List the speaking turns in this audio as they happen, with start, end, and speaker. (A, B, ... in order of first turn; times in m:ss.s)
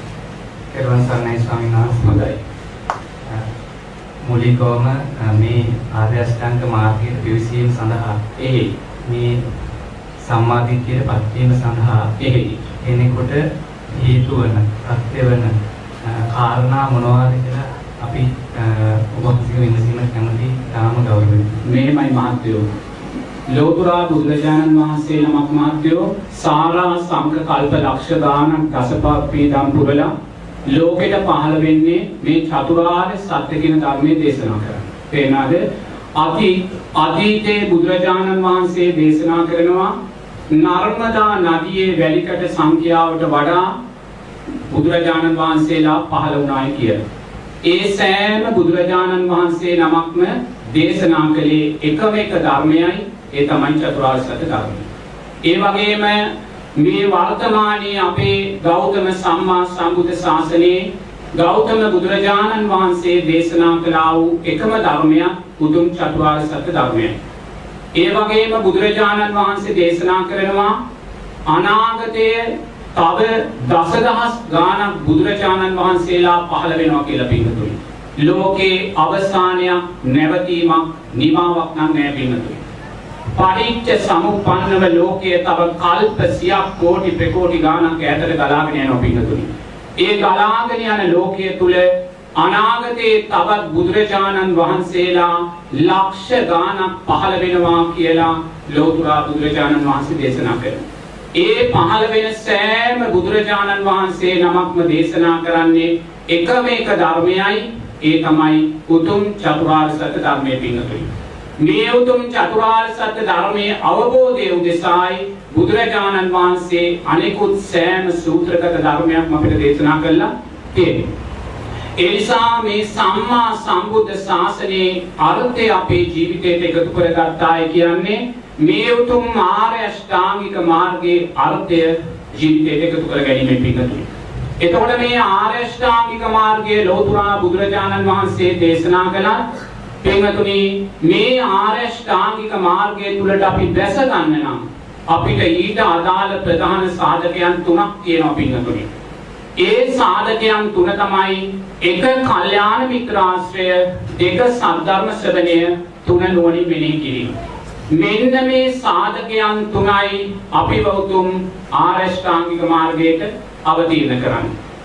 0:00.7-0:02.2 A
0:02.0-0:02.4 B
0:04.2-0:08.2 A
0:08.4-0:08.7 B
0:09.0-0:09.4 A
0:10.2-0:12.1 A
0:12.2-0:12.6 B
0:12.8-0:21.6 A
0:21.6-0:22.7 B
0:23.5-0:30.1 B
0:30.7-0:40.0 B
0:40.5-0:43.8 B
0:44.7-0:47.0 B
0:47.6-0:54.9 B
0:55.4-1:07.1 B
1:08.0-1:10.8 B
1:11.5-1:22.6 B
1:23.3-1:40.8 B
1:41.4-1:51.1 B
1:51.6-2:01.1 B
2:02.0-2:14.1 B
2:14.6-2:19.4 B
2:20.0-2:28.9 B
2:29.6-2:37.3 B
2:37.9-2:44.5 B